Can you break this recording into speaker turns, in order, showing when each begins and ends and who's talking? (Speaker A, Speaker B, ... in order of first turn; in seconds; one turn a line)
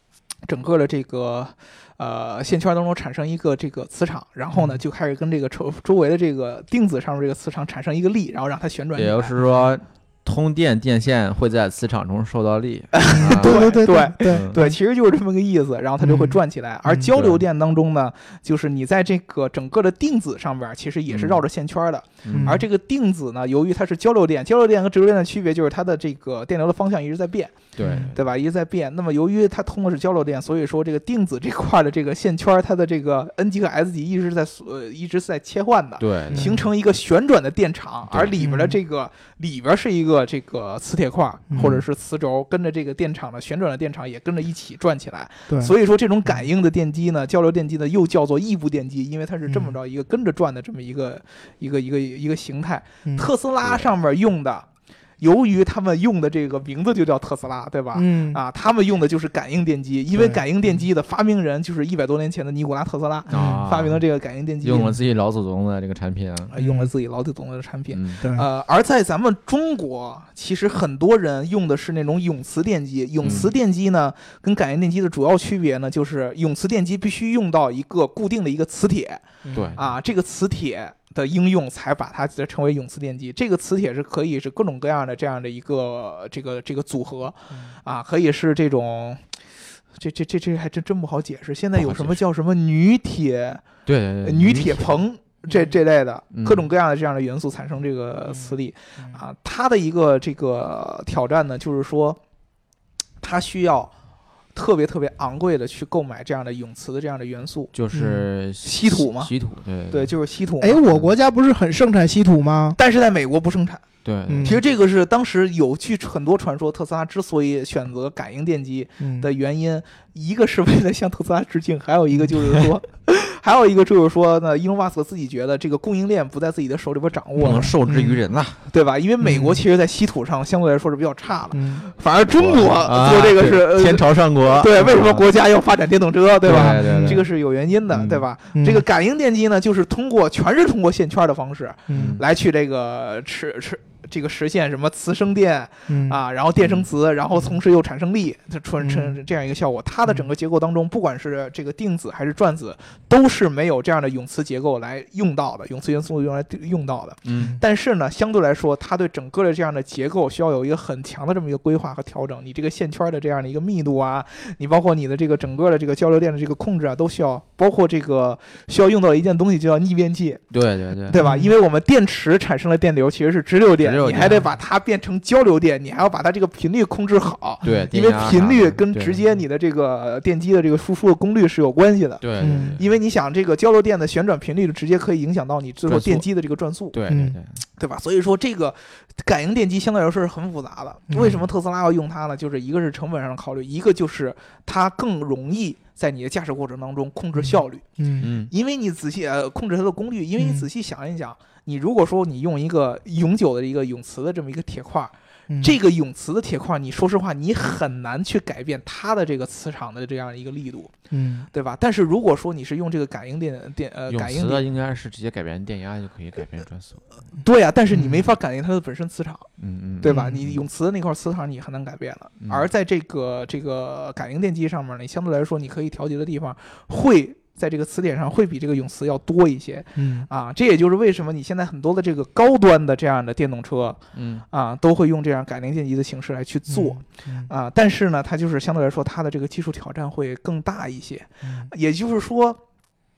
Speaker A: 0.5-9.4
Speaker B: 4.5-4.8
Speaker C: 9.0-14.6
Speaker A: 12.9-54.7
Speaker B: 13.1-14.8
Speaker B: 16.0-16.4
Speaker C: 17.1-17.4
Speaker C: 21.1-21.4
Speaker C: 22.2-22.6
Speaker B: 22.3-22.6
Speaker C: 27.8-28.2
Speaker B: 27.8-28.1
Speaker C: 36.0-36.6
Speaker B: 36.3-36.7
Speaker C: 38.1-38.4
Speaker B: 38.4-38.8
Speaker B: 41.5-41.8
Speaker C: 41.6-41.8
Speaker B: 45.5-45.7
Speaker B: 49.5-49.8
Speaker C: 53.6-53.9
Speaker A: 55.2-65.0
Speaker B: 57.9-58.4
Speaker B: 60.1-60.4
Speaker C: 63.3-64.0
Speaker B: 63.3-63.6
Speaker C: 64.6-66.5
Speaker A: 66.5-89.2
Speaker B: 66.6-66.9
Speaker C: 67.9-68.2
Speaker B: 68.2-68.5
Speaker C: 73.2-73.5
Speaker B: 79.4-79.8
Speaker C: 79.5-79.8
Speaker A: 90.0-93.7
Speaker C: 91.8-92.2
Speaker C: 93.9-95.0
Speaker A: 94.2-102.2
Speaker C: 96.3-96.7
Speaker B: 98.3-99.2
Speaker A: 103.2-103.9
Speaker A: 104.5-107.7
Speaker C: 107.7-110.1
Speaker B: 107.9-108.2
Speaker A: 108.6-109.3
Speaker A: 109.9-110.8
Speaker B: 110.6-112.8
Speaker C: 110.9-111.1
Speaker A: 112.8-113.8
Speaker C: 114.0-114.6
Speaker B: 114.3-114.6
Speaker A: 114.4-127.7
Speaker B: 119.0-119.3
Speaker C: 127.4-128.6
Speaker B: 127.5-128.2
Speaker A: 128.7-170.4
Speaker B: 129.2-129.6
Speaker B: 131.5-131.8
Speaker C: 132.3-135.2
Speaker C: 136.4-137.3
Speaker B: 136.5-137.2
Speaker C: 137.9-138.2
Speaker B: 138.6-138.8
Speaker B: 141.9-142.2
Speaker C: 141.9-142.2
Speaker B: 145.9-146.2
Speaker C: 146.6-146.9
Speaker B: 148.8-149.2
Speaker C: 157.2-157.6
Speaker C: 170.5-171.2
Speaker A: 171.1-187.0
Speaker B: 171.1-171.5
Speaker C: 173.8-174.4
Speaker C: 177.6-179.2
Speaker C: 182.2-182.9
Speaker B: 182.4-182.8
Speaker C: 185.9-186.3
Speaker C: 186.9-187.6
Speaker B: 187.1-187.4
Speaker A: 187.8-210.9
Speaker B: 191.1-191.4
Speaker C: 191.2-191.5
Speaker B: 197.4-198.3
Speaker C: 198.2-198.5
Speaker B: 200.4-200.7
Speaker B: 205.5-205.8
Speaker B: 211.1-211.5
Speaker A: 211.5-214.6
Speaker C: 214.1-217.0
Speaker A: 217.4-219.5
Speaker B: 217.9-218.2
Speaker C: 219.6-220.6
Speaker A: 220.0-242.6
Speaker B: 220.1-220.4
Speaker C: 222.4-222.7
Speaker B: 230.0-230.3
Speaker C: 234.2-234.4
Speaker B: 236.7-237.5
Speaker B: 241.4-241.7